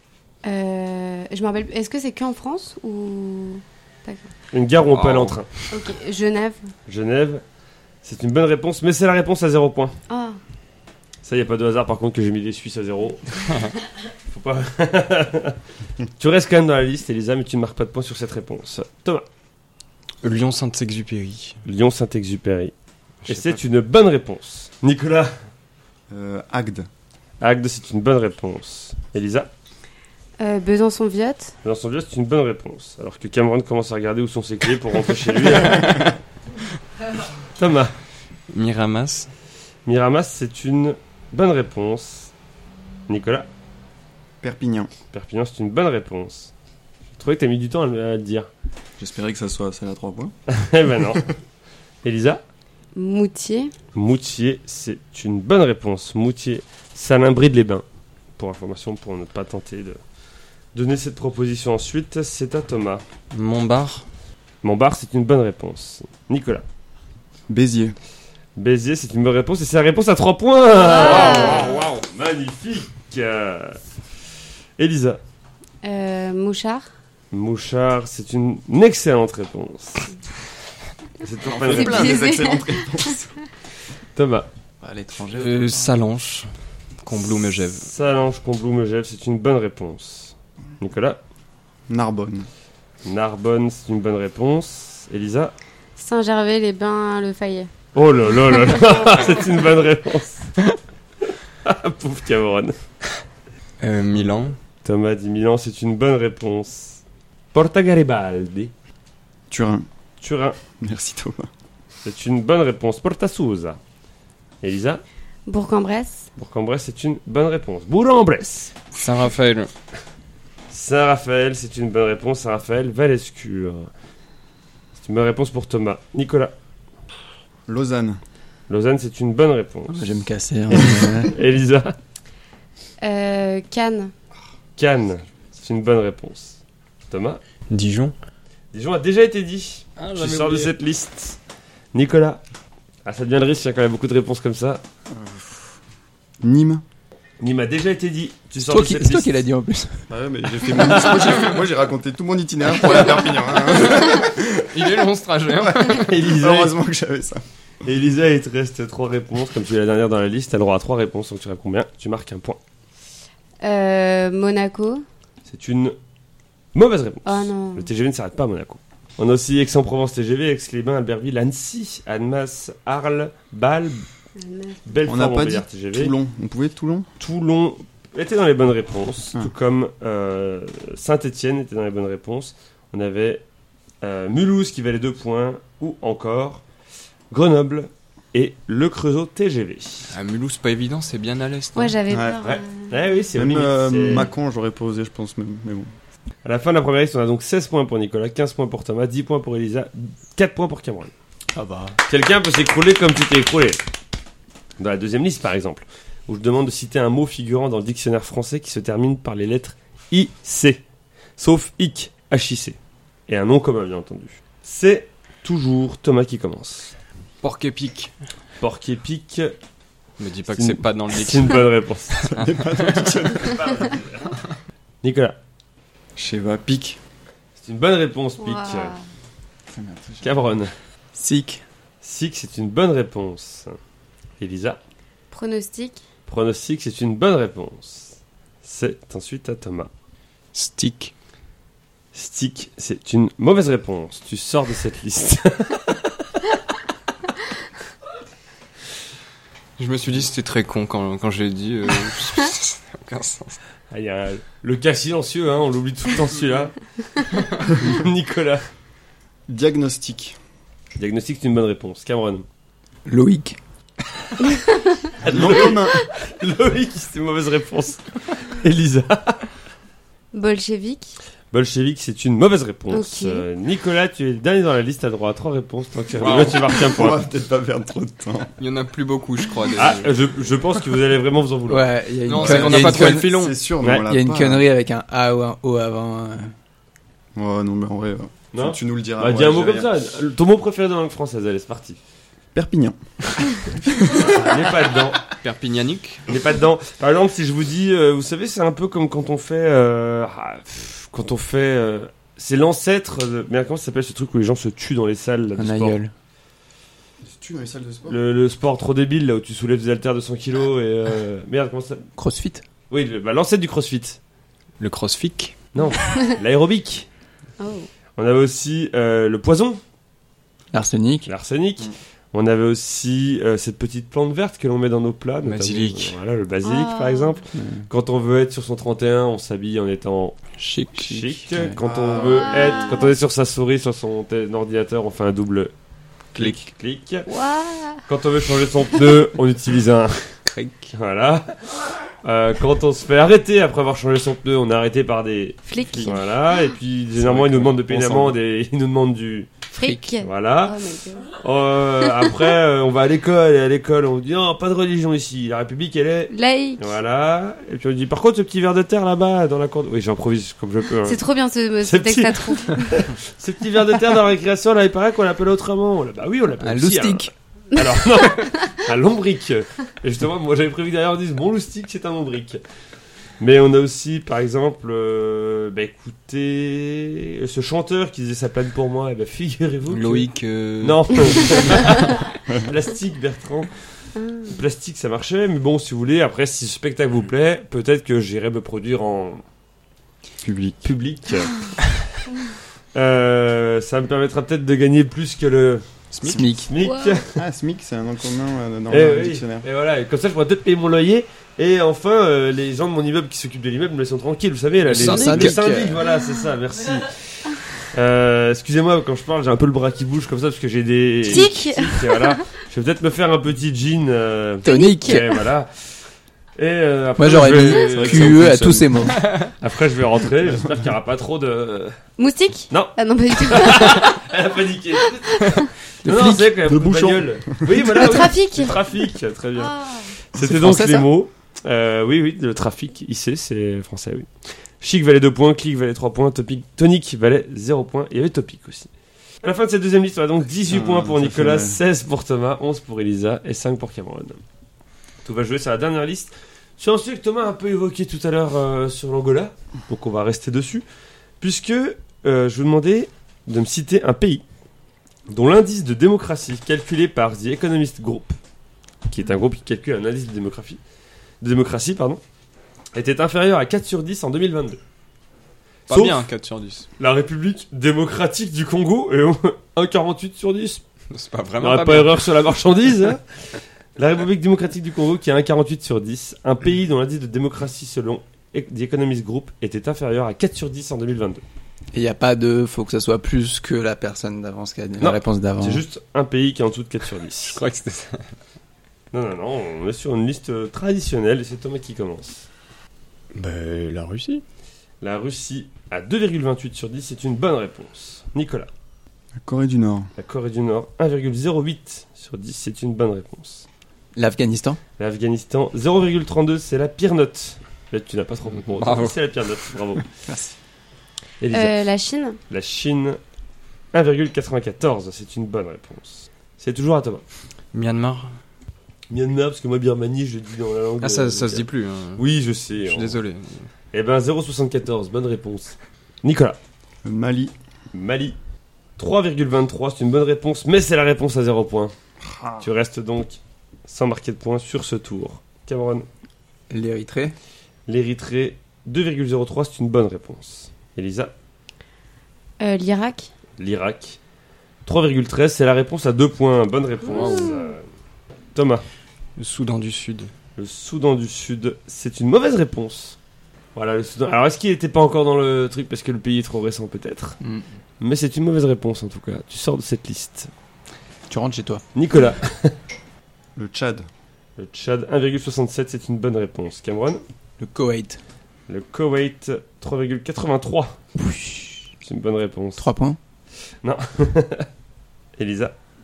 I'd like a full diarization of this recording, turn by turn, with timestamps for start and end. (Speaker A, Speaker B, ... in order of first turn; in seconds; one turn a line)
Speaker A: 0.4-4.3
Speaker B: 4.5-5.5
Speaker C: 4.9-5.4
Speaker A: 5.7-6.6
Speaker B: 6.9-7.4
Speaker B: 8.0-9.9
Speaker A: 10.1-10.4
Speaker B: 11.2-13.7
Speaker B: 14.3-15.6
Speaker B: 16.2-19.2
Speaker C: 20.2-21.6
Speaker B: 21.6-22.7
Speaker C: 23.2-23.6
Speaker B: 23.2-25.3
Speaker D: 26.1-26.9
Speaker B: 27.4-29.5
Speaker A: 30.4-31.5
Speaker B: 31.6-36.1
Speaker D: 35.6-36.1
Speaker B: 37.5-37.9
Speaker C: 38.5-39.3
Speaker B: 39.9-42.3
Speaker B: 43.1-43.5
Speaker D: 44.4-44.9
Speaker B: 45.1-46.5
Speaker B: 47.1-48.5
Speaker D: 49.0-50.3
Speaker B: 50.5-51.3
Speaker B: 52.0-52.4
Speaker A: 52.9-53.7
Speaker B: 53.9-57.8
Speaker B: 58.4-60.0
Speaker B: 60.7-63.0
Speaker C: 63.3-64.0
Speaker B: 64.6-66.6
Speaker D: 67.5-68.0
Speaker B: 68.5-73.8
Speaker A: 70.8-71.8
Speaker B: 74.8-75.2
Speaker A: 75.8-76.9
Speaker B: 77.3-80.1
Speaker B: 81.2-82.2
Speaker D: 81.4-83.3
Speaker A: 81.7-83.1
Speaker B: 84.1-84.5
Speaker E: 84.8-85.9
Speaker C: 85.3-86.5
Speaker C: 87.0-87.9
Speaker B: 87.8-91.2
Speaker D: 91.9-92.5
Speaker B: 93.0-95.5
Speaker A: 96.0-97.7
Speaker B: 97.9-100.5
Speaker B: 101.6-102.8
Speaker C: 103.8-104.6
Speaker B: 104.8-107.0
Speaker B: 107.5-108.7
Speaker D: 109.5-109.9
Speaker B: 110.2-110.6
Speaker D: 110.8-111.5
Speaker B: 112.0-113.8
Speaker B: 114.6-115.0
Speaker A: 115.5-116.3
Speaker B: 116.3-118.7
Speaker C: 118.9-119.7
Speaker B: 120.7-123.9
Speaker B: 125.0-126.5
Speaker D: 127.7-128.2
Speaker B: 128.7-130.1
Speaker E: 129.9-131.3
Speaker B: 130.7-131.9
Speaker A: 133.0-134.1
Speaker B: 134.8-137.4
Speaker C: 137.7-138.1
Speaker B: 138.7-141.4
Speaker C: 140.0-140.7
Speaker B: 141.9-142.4
Speaker B: 143.0-144.8
Speaker D: 145.1-145.7
Speaker D: 146.4-146.8
Speaker B: 147.4-149.4
Speaker E: 148.6-150.1
Speaker D: 150.1-154.9
Speaker C: 154.0-156.1
Speaker D: 155.5-157.4
Speaker B: 155.9-156.7
Speaker B: 157.8-162.6
Speaker A: 163.6-165.0
Speaker B: 165.4-165.9
Speaker B: 166.7-174.0
Speaker A: 167.2-167.9
Speaker A: 174.4-175.1
Speaker B: 174.8-176.1
Speaker D: 175.1-177.1
Speaker B: 177.2-183.4
Speaker B: 184.0-186.6
Speaker B: 187.3-190.1
Speaker C: 190.1-192.0
Speaker A: 191.7-193.1
Speaker D: 192.1-192.4
Speaker B: 192.4-194.3
Speaker D: 193.3-195.9
Speaker B: 196.4-201.1
Speaker D: 201.5-202.0
Speaker B: 202.1-203.8
Speaker B: 204.8-210.8
Speaker B: 211.4-216.9
Speaker C: 217.4-218.1
Speaker B: 218.6-219.5
Speaker C: 220.2-223.1
Speaker B: 220.5-222.3
Speaker D: 222.3-224.0
Speaker B: 223.5-224.3
Speaker B: 225.0-225.4
Speaker D: 226.2-227.0
Speaker B: 227.6-228.9
Speaker A: 228.4-229.0
Speaker D: 229.7-230.3
Speaker B: 230.2-230.7
Speaker E: 231.1-231.6
Speaker B: 232.0-233.8
Speaker B: 234.4-234.8
Speaker A: 235.3-236.0
Speaker B: 236.3-239.9
Speaker C: 240.5-241.1
Speaker B: 242.1-246.1
Speaker C: 249.8-253.6
Speaker B: 253.9-256.7
Speaker B: 257.6-258.6
Speaker D: 259.5-260.4
Speaker B: 261.0-262.4
Speaker E: 263.1-263.6
Speaker A: 264.4-265.0
Speaker B: 265.2-269.4
Speaker D: 265.3-266.0
Speaker A: 270.3-271.1
Speaker B: 271.5-277.2
Speaker A: 272.9-273.5
Speaker D: 276.2-278.5
Speaker C: 276.2-276.6
Speaker C: 278.6-280.2
Speaker B: 279.8-281.9
Speaker E: 281.7-283.3
Speaker C: 282.2-283.6
Speaker D: 282.3-284.6
Speaker B: 283.8-284.1
Speaker E: 284.0-286.5
Speaker D: 287.3-289.9
Speaker B: 288.5-292.0
Speaker D: 292.5-294.5
Speaker B: 294.1-295.2
Speaker C: 295.2-296.2
Speaker B: 296.3-306.0
Speaker E: 305.6-306.1
Speaker D: 307.2-308.2
Speaker B: 308.1-312.0
Speaker E: 312.2-312.6
Speaker B: 312.9-314.2
Speaker C: 314.8-315.6
Speaker B: 315.7-317.1
Speaker A: 315.9-316.4
Speaker A: 317.6-317.9
Speaker B: 318.2-319.8
Speaker E: 320.7-321.3
Speaker B: 321.2-330.4
Speaker C: 325.4-326.1
Speaker A: 326.6-327.4
Speaker E: 327.5-327.9
Speaker C: 330.6-331.4
Speaker B: 330.9-335.7
Speaker E: 331.5-331.8
Speaker D: 331.8-332.7
Speaker A: 332.4-333.1
Speaker B: 336.3-337.3
Speaker A: 337.3-338.0
Speaker B: 338.1-340.2
Speaker C: 340.5-340.9
Speaker B: 340.9-341.6
Speaker B: 342.2-349.5
Speaker A: 345.7-346.7
Speaker D: 347.3-348.2
Speaker A: 349.7-351.3
Speaker B: 350.2-350.8
Speaker B: 351.3-361.2
Speaker A: 356.3-357.0
Speaker A: 361.0-363.0
Speaker B: 361.8-372.6
Speaker E: 366.6-367.3
Speaker A: 367.7-368.7
Speaker B: 373.4-380.3
Speaker C: 379.9-381.8
Speaker B: 380.8-383.7
Speaker A: 384.1-384.6
Speaker B: 384.5-389.4
Speaker D: 390.4-390.9
Speaker B: 390.8-391.6
Speaker B: 392.9-395.8
Speaker C: 396.1-396.4
Speaker E: 396.2-396.7
Speaker B: 396.4-397.4
Speaker A: 396.8-397.2
Speaker D: 397.3-399.6
Speaker B: 398.9-415.7
Speaker C: 404.9-405.6
Speaker E: 404.9-406.0
Speaker A: 411.2-412.4
Speaker A: 414.6-415.4
Speaker E: 414.6-415.2
Speaker B: 416.6-418.8
Speaker E: 417.2-419.2
Speaker D: 417.9-419.0
Speaker C: 419.1-419.5
Speaker B: 419.6-422.0
Speaker A: 422.2-424.2
Speaker B: 422.7-434.3
Speaker A: 425.3-425.7
Speaker E: 426.0-426.5
Speaker D: 426.6-427.9
Speaker A: 427.9-428.8
Speaker A: 429.6-430.1
Speaker E: 430.4-431.1
Speaker B: 434.8-438.9
Speaker B: 439.4-444.4
Speaker D: 440.7-441.8
Speaker B: 445.2-450.8
Speaker B: 451.4-454.4
Speaker B: 455.3-458.4
Speaker B: 459.1-460.8
Speaker B: 461.4-462.2
Speaker B: 462.9-464.8
Speaker C: 465.9-466.9
Speaker B: 465.9-466.2
Speaker B: 467.0-470.8
Speaker C: 471.1-472.4
Speaker B: 471.6-473.2
Speaker B: 473.9-481.4
Speaker E: 481.9-485.8
Speaker B: 485.0-487.6
Speaker C: 487.4-488.3
Speaker B: 489.1-492.5
Speaker C: 493.3-494.4
Speaker B: 495.0-498.7
Speaker D: 499.4-500.1
Speaker B: 500.2-503.6
Speaker E: 504.1-504.8
Speaker B: 505.0-510.1
Speaker C: 508.6-509.1
Speaker B: 511.4-511.9
Speaker A: 511.5-512.4
Speaker B: 512.5-513.2
Speaker B: 513.9-517.2
Speaker C: 517.7-518.3
Speaker B: 519.1-523.2
Speaker C: 521.0-522.2
Speaker C: 522.8-523.7
Speaker B: 523.9-526.6
Speaker D: 527.0-527.5
Speaker B: 527.9-528.4
Speaker B: 529.0-531.9
Speaker D: 532.2-532.6
Speaker B: 532.6-536.0
Speaker E: 536.7-537.3
Speaker B: 537.9-541.3
Speaker A: 542.6-543.3
Speaker B: 543.6-544.2
Speaker B: 544.8-547.8
Speaker C: 547.1-547.6
Speaker A: 547.2-547.6
Speaker B: 548.5-548.8
Speaker C: 549.4-550.3
Speaker B: 550.6-553.2
Speaker B: 553.7-557.4
Speaker E: 557.4-557.7
Speaker B: 558.0-560.5
Speaker E: 561.3-561.8
Speaker B: 561.9-562.7
Speaker D: 563.5-564.1
Speaker B: 564.6-567.2
Speaker E: 567.6-568.2
Speaker B: 568.7-571.0
Speaker E: 571.2-571.8
Speaker B: 572.0-572.9
Speaker E: 572.8-573.2
Speaker B: 573.8-574.7
Speaker B: 575.4-575.7